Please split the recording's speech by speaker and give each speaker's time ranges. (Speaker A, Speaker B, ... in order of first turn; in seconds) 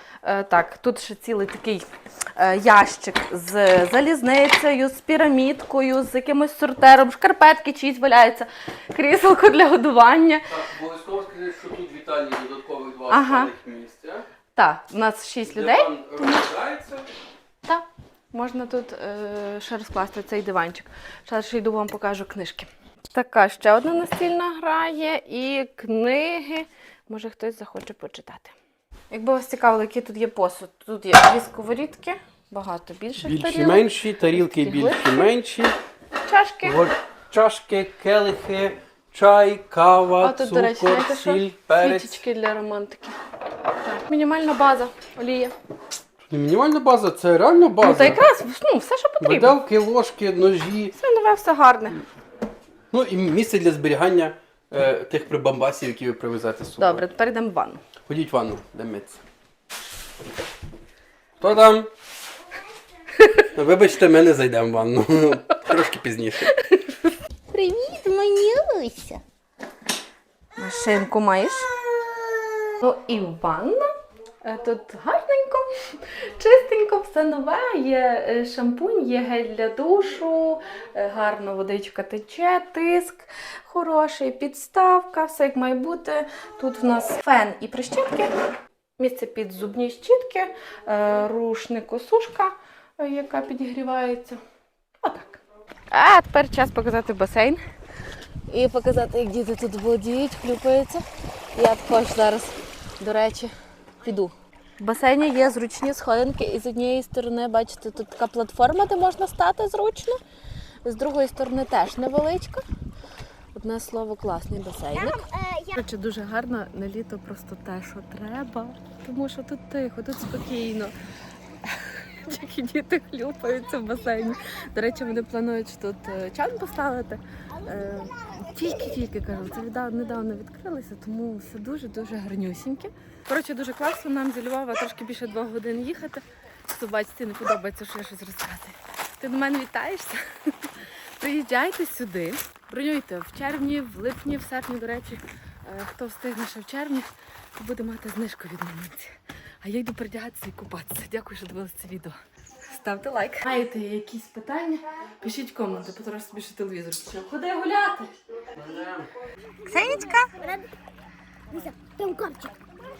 Speaker A: 0.2-10.4, 13.1-13.5, 14.5-16.4, 17.6-28.5, 29.1-35.3, 36.2-36.8, 40.2-43.2, 43.8-45.5, 47.8-49.5, 50.9-52.0, 56.8-57.8, 66.5-67.1, 70.6-71.7, 72.8-73.9, 74.4-75.6, 76.3-88.3, 89.0-94.4, 95.0-97.6, 98.5-101.0, 101.5-103.5, 104.0-110.2, 110.8-112.6, 113.5-120.9, 121.6-158.1, 159.7-160.3
Speaker B: 10.4-14.2, 15.4-17.1, 33.2-35.7, 36.6-42.2, 46.3-48.2, 49.2-51.0, 52.9-57.0, 58.1-59.2, 61.4-61.9, 63.5-66.5, 158.5-159.1
Speaker C: 67.5-69.2, 115.1-115.7, 159.7-160.6, 161.5-162.5